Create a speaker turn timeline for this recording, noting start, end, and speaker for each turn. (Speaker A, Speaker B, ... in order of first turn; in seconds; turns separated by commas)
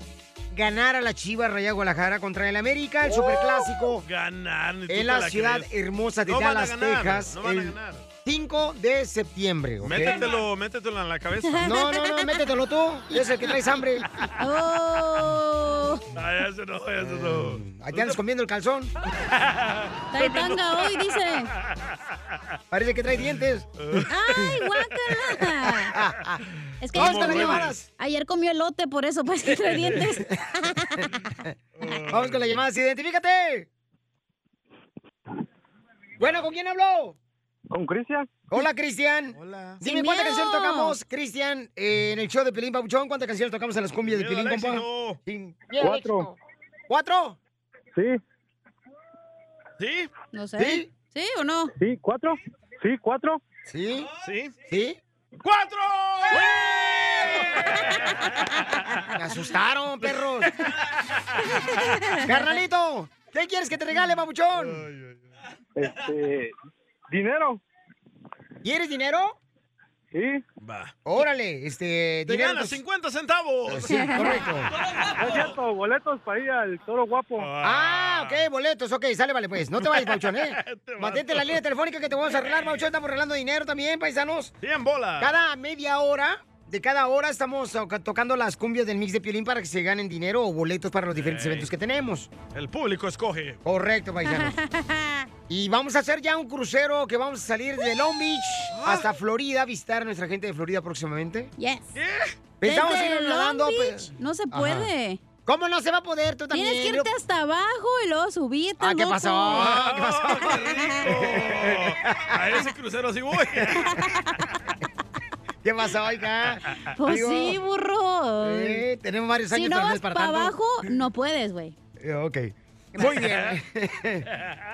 Speaker A: 0.5-4.0, Speaker B: 3.8-5.7, Speaker A: 4.9-10.3, Speaker B: 6.3-8.0, Speaker B: 9.8-11.9, Speaker C: 11.5-12.3, Speaker A: 11.6-14.1, Speaker C: 14.4-16.1, Speaker B: 16.1-18.2, Speaker A: 17.1-18.9, Speaker B: 19.3-21.1, Speaker C: 20.1-21.5, Speaker A: 22.7-23.7, Speaker B: 23.8-24.6, Speaker C: 24.1-25.9, Speaker A: 25.9-26.4, Speaker C: 26.8-31.1, Speaker B: 26.9-27.7, Speaker A: 26.9-27.9, Speaker B: 29.6-30.0, Speaker B: 31.8-32.4, Speaker A: 32.1-33.7, Speaker A: 36.2-37.2, Speaker D: 37.7-38.3, Speaker A: 38.5-46.4, Speaker B: 39.4-39.8, Speaker C: 39.8-41.0, Speaker B: 44.1-45.2, Speaker D: 45.8-46.3, Speaker A: 46.9-47.4, Speaker D: 47.9-48.2, Speaker B: 49.8-50.1, Speaker C: 50.3-51.7, Speaker A: 50.6-50.9, Speaker D: 51.8-53.4, Speaker A: 53.7-54.1, Speaker B: 54.2-54.5, Speaker A: 54.7-55.0, Speaker B: 55.4-58.1, Speaker A: 59.1-60.5, Speaker C: 61.6-62.2, Speaker A: 62.2-64.8, Speaker D: 65.8-66.5, Speaker D: 67.1-67.6, Speaker A: 68.6-69.4, Speaker D: 70.1-70.4, Speaker B: 70.6-71.0, Speaker A: 71.1-72.8, Speaker B: 72.3-74.3, Speaker A: 73.7-74.7, Speaker C: 73.9-74.3, Speaker B: 75.2-75.5, Speaker D: 75.2-77.5, Speaker B: 77.4-78.4, Speaker A: 77.6-84.5, Speaker B: 79.8-81.6, Speaker B: 84.6-85.4, Speaker A: 85.2-92.3, Speaker B: 91.1-91.7, Speaker B: 92.5-93.6, Speaker A: 93.7-94.5, Speaker C: 94.2-95.3, Speaker A: 95.5-101.5, Speaker B: 98.7-99.1, Speaker C: 101.6-101.9, Speaker B: 102.0-102.3, Speaker A: 102.6-104.9, Speaker C: 102.6-105.2, Speaker A: 105.5-107.1, Speaker C: 106.5-109.7, Speaker A: 108.8-112.4, Speaker B: 109.5-113.9, Speaker A: 115.6-117.6, Speaker C: 117.0-118.8, Speaker A: 118.4-120.6, Speaker C: 119.5-121.8, Speaker A: 122.0-124.3, Speaker B: 123.0-123.5